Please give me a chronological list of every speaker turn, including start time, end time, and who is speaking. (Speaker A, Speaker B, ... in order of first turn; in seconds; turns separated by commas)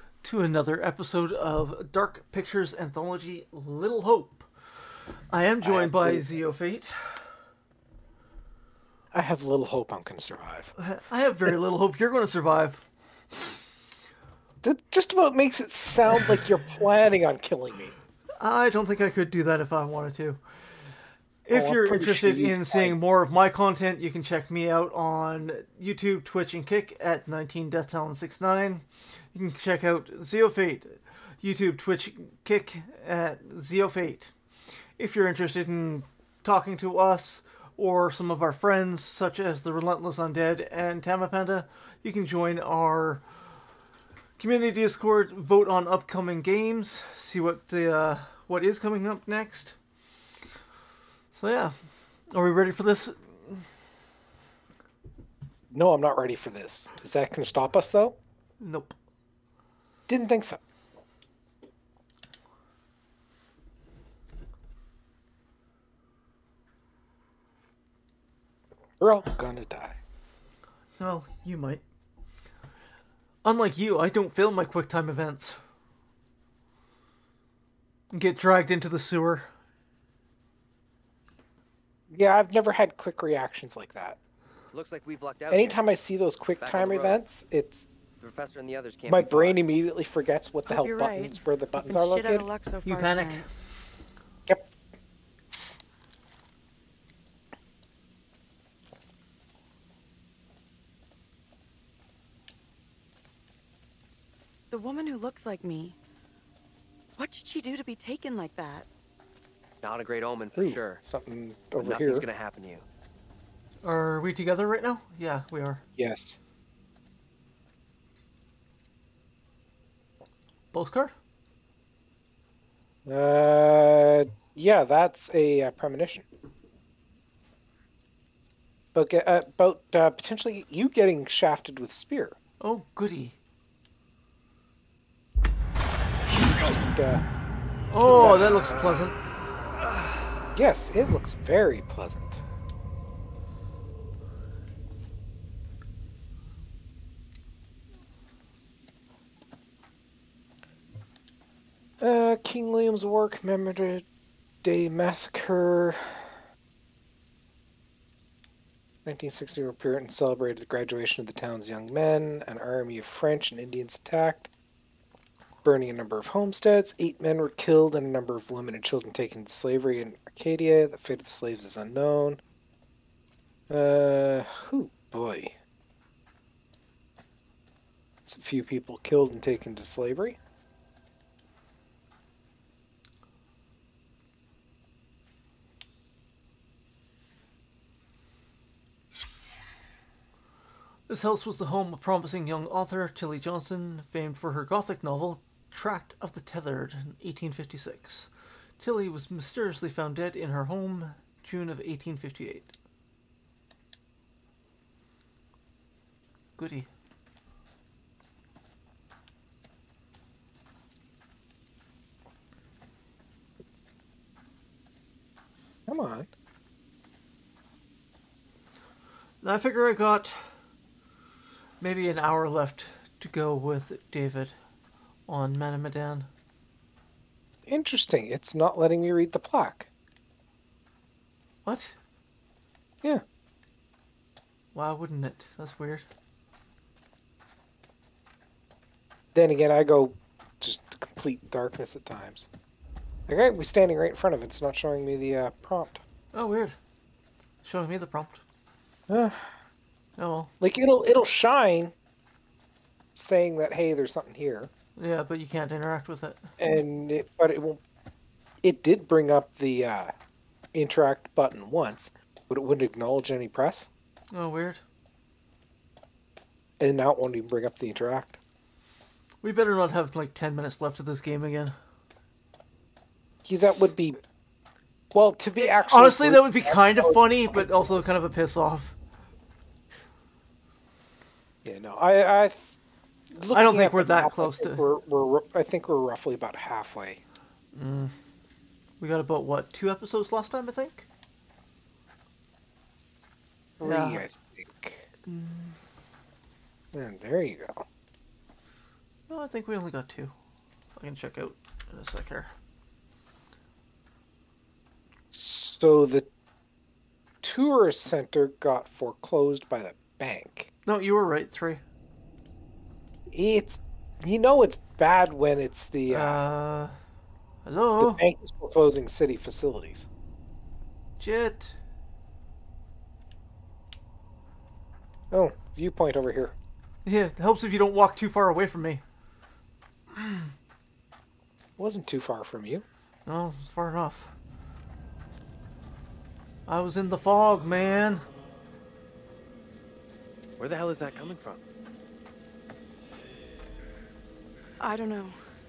Speaker A: 0.2-7.4, Speaker B: 5.6-6.2, Speaker B: 9.1-10.7, Speaker A: 10.8-12.8, Speaker B: 14.6-18.0, Speaker A: 18.4-20.4, Speaker A: 21.4-34.3, Speaker B: 21.5-22.9, Speaker A: 35.0-43.2, Speaker A: 44.4-49.8, Speaker A: 51.3-51.8, Speaker A: 52.3-53.6, Speaker B: 55.7-58.2, Speaker A: 58.6-58.9, Speaker B: 60.1-60.6, Speaker B: 69.0-70.0, Speaker A: 71.0-71.8, Speaker A: 73.4-75.6, Speaker A: 78.1-79.5, Speaker B: 82.1-84.2, Speaker C: 84.7-85.8, Speaker B: 85.5-87.9, Speaker C: 86.6-87.2, Speaker C: 88.2-89.6, Speaker B: 89.1-92.5, Speaker D: 90.7-93.5, Speaker A: 92.8-93.5, Speaker D: 104.7-106.0, Speaker D: 107.2-108.9, Speaker C: 109.8-111.0, Speaker B: 110.5-112.2, Speaker C: 111.8-112.8, Speaker A: 113.8-115.8, Speaker B: 116.0-116.4, Speaker A: 120.7-121.1, Speaker B: 123.0-126.2, Speaker B: 128.9-132.4, Speaker A: 132.6-133.4, Speaker B: 136.4-137.2, Speaker A: 137.9-139.2, Speaker B: 137.9-138.8, Speaker B: 140.5-142.4, Speaker B: 152.0-154.0, Speaker B: 154.6-156.3, Speaker B: 159.0-164.5, Speaker B: 165.6-172.4, Speaker B: 173.7-175.5, Speaker B: 178.3-180.4, Speaker A: 191.1-202.7, Speaker A: 206.6-206.9, Speaker B: 215.9-216.3, Speaker A: 219.4-220.5, Speaker A: 221.8-224.6, Speaker A: 225.3-226.3, Speaker B: 227.7-229.9, Speaker A: 231.6-231.9, Speaker A: 234.7-236.1, Speaker B: 239.3-242.5, Speaker B: 243.3-246.0, Speaker A: 246.3-246.8, Speaker A: 247.6-248.4, Speaker B: 249.1-249.5, Speaker A: 250.2-250.5, Speaker B: 250.6-251.9, Speaker B: 253.2-254.7, Speaker A: 255.0-256.5, Speaker B: 256.6-257.8, Speaker B: 258.6-260.1, Speaker B: 260.7-263.9, Speaker A: 264.3-264.8, Speaker B: 266.8-268.4, Speaker A: 269.4-271.8, Speaker B: 273.4-274.2, Speaker B: 275.1-277.7, Speaker A: 275.6-278.9, Speaker B: 281.6-282.8, Speaker B: 283.3-287.2, Speaker A: 283.5-284.8, Speaker A: 287.7-288.1, Speaker A: 289.0-291.1, Speaker B: 293.8-295.1, Speaker A: 293.8-294.2, Speaker A: 295.2-295.8, Speaker B: 296.9-297.8, Speaker A: 299.3-300.3, Speaker A: 300.9-302.5, Speaker B: 305.3-306.3, Speaker B: 307.4-310.7, Speaker A: 310.8-311.8, Speaker B: 313.3-316.4, Speaker A: 316.1-317.0, Speaker A: 317.6-318.2, Speaker B: 318.0-320.1, Speaker A: 321.2-321.8, Speaker B: 325.3-326.5, Speaker A: 327.0-329.0, Speaker A: 330.1-330.5, Speaker B: 331.8-332.8, Speaker A: 333.2-334.3, Speaker A: 336.7-338.3, Speaker C: 340.6-341.6, Speaker D: 344.8-345.4